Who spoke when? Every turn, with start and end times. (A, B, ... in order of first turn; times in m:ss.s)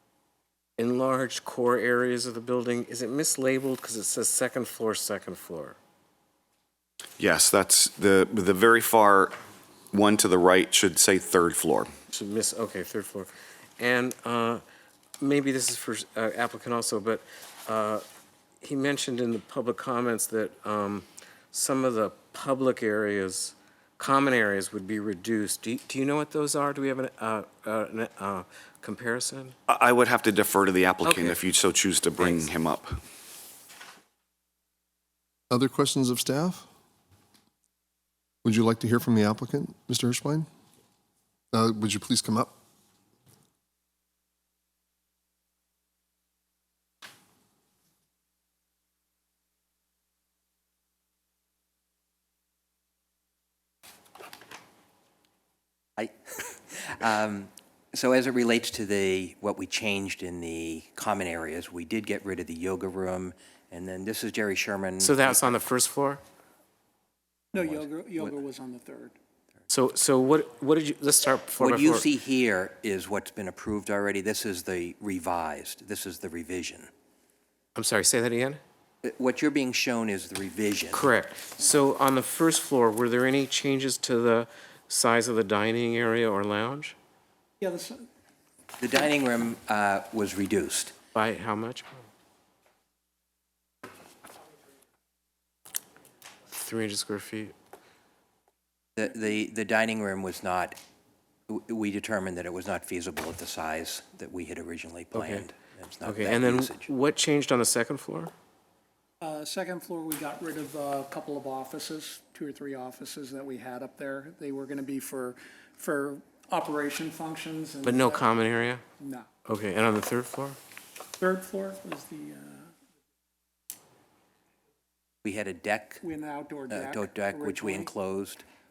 0:00.8-0:05.8 A
0:07.2-0:09.4 B
0:09.9-0:11.9 B
0:12.1-0:14.6 A
0:15.2-0:18.0 A
0:18.6-0:29.6 A
0:29.7-0:33.0 B
0:31.0-0:31.4 A
0:32.2-0:32.5 A
0:35.5-0:36.7 C
0:38.4-0:40.5 C
0:41.5-0:42.5 C
0:56.0-1:05.6 D
1:05.0-1:06.2 A
1:07.5-1:09.2 E
1:07.6-1:08.2 D
1:09.7-1:12.0 A
1:11.6-1:16.9 D
1:17.8-1:18.6 A
1:19.0-1:21.0 D
1:20.9-1:27.0 A
1:27.6-1:28.0 E
1:28.8-1:30.9 D
1:31.1-1:32.0 A
1:36.5-1:37.5 A
1:39.0-1:40.8 D
1:41.5-1:46.9 D
1:45.1-1:45.4 A
1:46.0-1:48.3 A
1:49.2-1:58.2 E
1:57.8-1:58.8 A
1:59.0-1:59.3 E
1:59.4-2:00.6 A
2:01.2-2:02.7 E
2:05.2-2:06.0 D
2:06.0-2:07.9 E
2:06.7-2:08.4 D